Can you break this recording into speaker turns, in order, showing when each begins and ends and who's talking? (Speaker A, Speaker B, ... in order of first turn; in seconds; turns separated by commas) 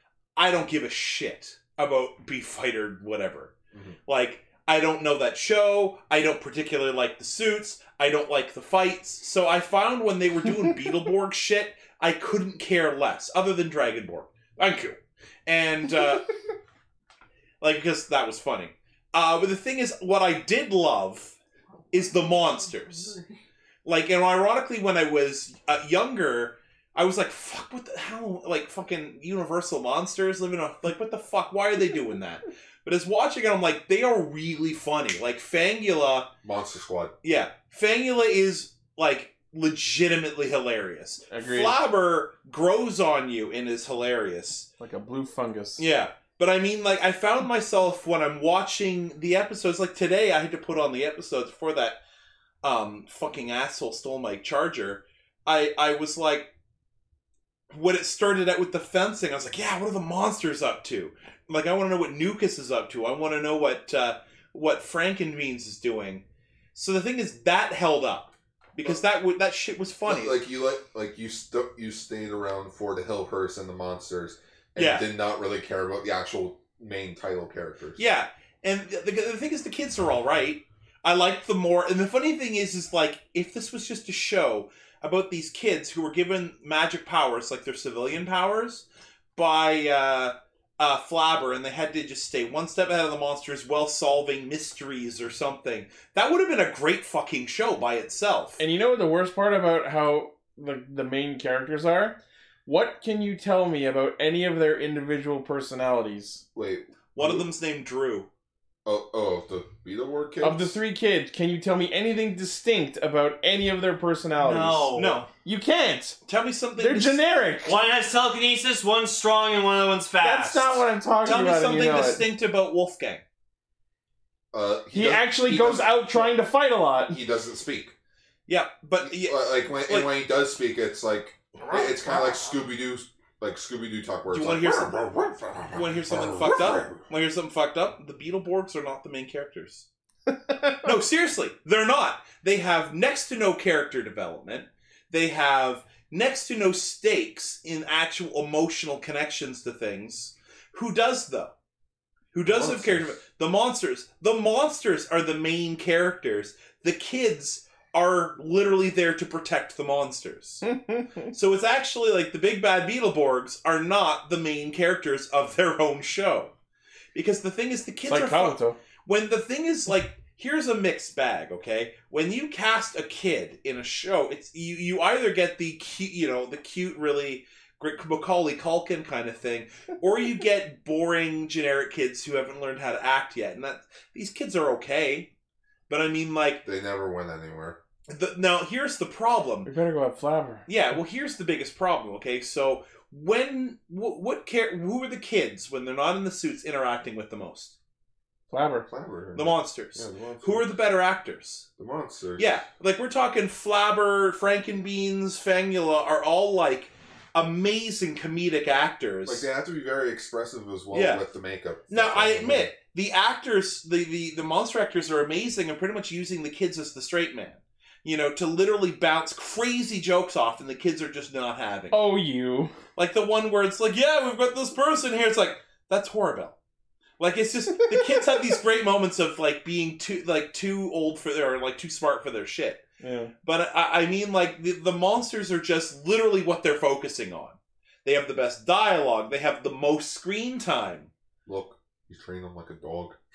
Speaker A: 0.4-3.5, Speaker B: 3.7-4.0, Speaker A: 4.1-16.3, Speaker A: 17.6-21.4, Speaker B: 21.9-23.2, Speaker A: 21.9-23.1, Speaker A: 23.9-36.3, Speaker B: 36.4-37.2, Speaker A: 37.2-44.7, Speaker C: 41.3-41.8, Speaker C: 44.8-45.8, Speaker A: 45.8-52.0, Speaker A: 52.6-56.5, Speaker A: 57.7-70.4, Speaker B: 70.1-78.0, Speaker A: 74.8-75.1, Speaker A: 78.0-98.6, Speaker C: 98.6-106.4, Speaker B: 106.5-107.5, Speaker A: 107.2-108.3, Speaker B: 108.8-110.8, Speaker C: 110.4-114.9, Speaker D: 114.4-115.3, Speaker A: 114.9-115.3, Speaker C: 115.4-116.2, Speaker A: 116.3-117.2, Speaker C: 116.8-117.8, Speaker D: 117.7-120.8, Speaker C: 120.2-122.2, Speaker A: 121.2-123.2, Speaker B: 124.5-126.4, Speaker C: 124.9-127.2, Speaker B: 127.1-127.9, Speaker A: 128.5-130.1, Speaker B: 129.0-137.0, Speaker A: 134.3-135.0, Speaker A: 135.8-139.9, Speaker A: 140.8-151.5, Speaker A: 152.3-160.7, Speaker B: 152.4-153.2, Speaker C: 160.7-161.3, Speaker A: 161.3-166.5, Speaker A: 167.1-185.3, Speaker C: 168.1-168.8, Speaker A: 185.9-186.7, Speaker B: 186.7-187.8, Speaker A: 188.1-189.7, Speaker C: 189.7-190.7, Speaker A: 190.7-197.8, Speaker C: 198.5-198.9, Speaker B: 198.9-200.7, Speaker A: 199.3-201.7, Speaker B: 201.8-202.6, Speaker A: 202.4-209.5, Speaker B: 209.3-212.7, Speaker A: 210.9-211.2, Speaker A: 211.9-222.0, Speaker C: 221.9-222.7, Speaker A: 223.0-226.6, Speaker A: 227.2-232.8, Speaker C: 233.0-233.3, Speaker A: 233.4-241.1, Speaker B: 241.5-243.2